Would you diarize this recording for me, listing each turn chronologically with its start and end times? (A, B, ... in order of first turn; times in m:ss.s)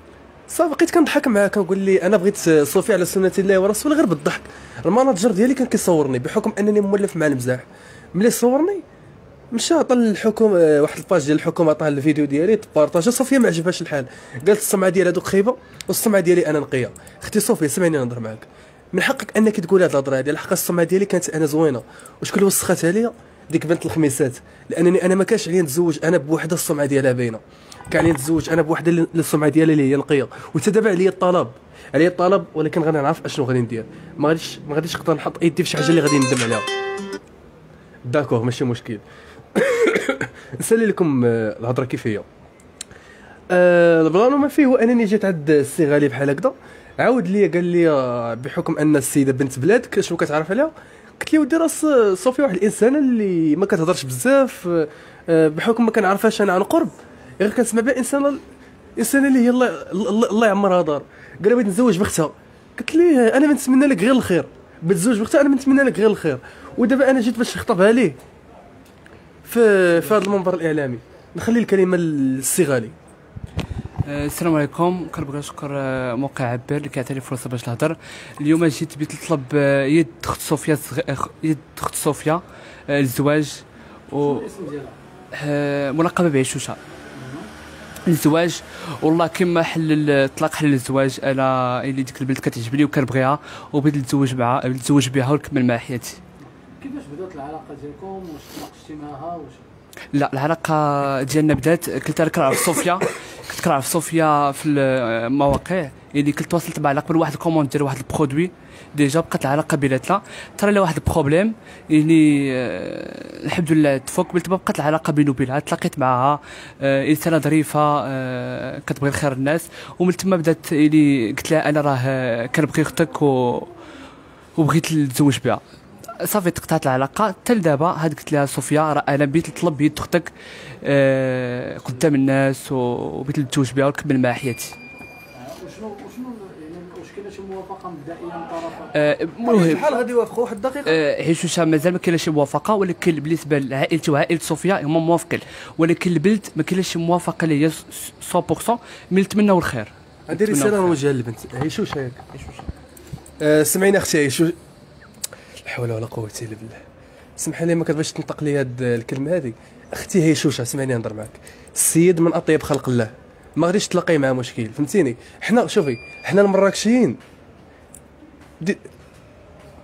0:00.5-0:08.8 A
0:09.5-0:36.7 A
0:38.1-0:42.3 A
0:43.5-0:58.4 A
0:59.0-1:08.2 A
1:09.4-1:13.0 A
1:14.0-1:24.5 B
1:24.2-1:25.0 C
1:25.4-1:26.8 B
1:27.2-1:27.5 C
1:28.1-1:36.2 B
1:36.8-1:39.7 C
1:40.1-2:03.7 B
2:04.6-2:05.6 B
2:06.2-2:14.8 B
2:15.4-2:19.1 C
2:18.9-2:19.9 B
2:19.4-2:21.0 A
2:20.8-2:31.0 B
2:30.3-2:32.2 A
2:32.3-2:32.7 B
2:33.4-2:34.6 A
2:35.6-2:36.8 A
2:37.4-2:47.2 A